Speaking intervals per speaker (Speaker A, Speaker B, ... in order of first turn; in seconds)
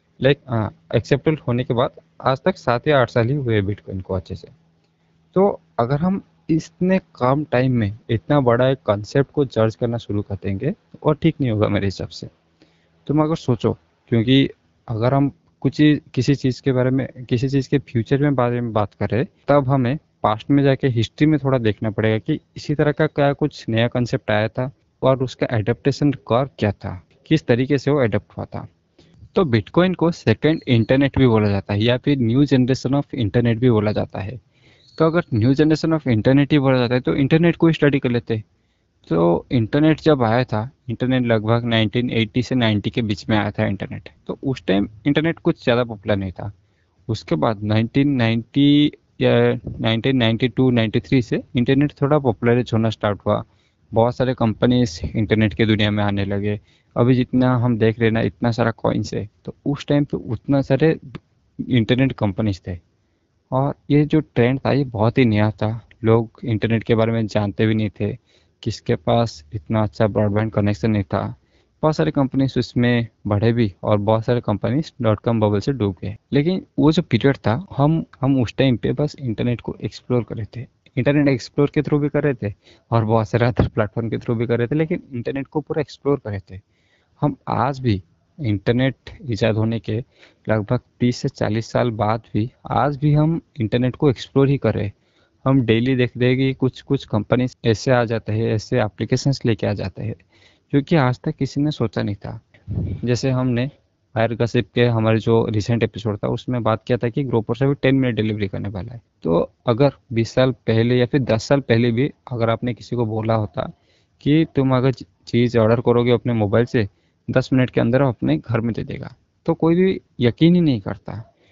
Speaker A: 0.2-4.5, 5.3-12.3, 13.1-28.7, 29.3-34.4, 35.0-38.4, 39.1-46.5, 47.1-61.2, 61.7-62.8, 63.5-86.6, 87.2-94.9, 95.5-100.2, 100.7-102.4, 103.0-121.2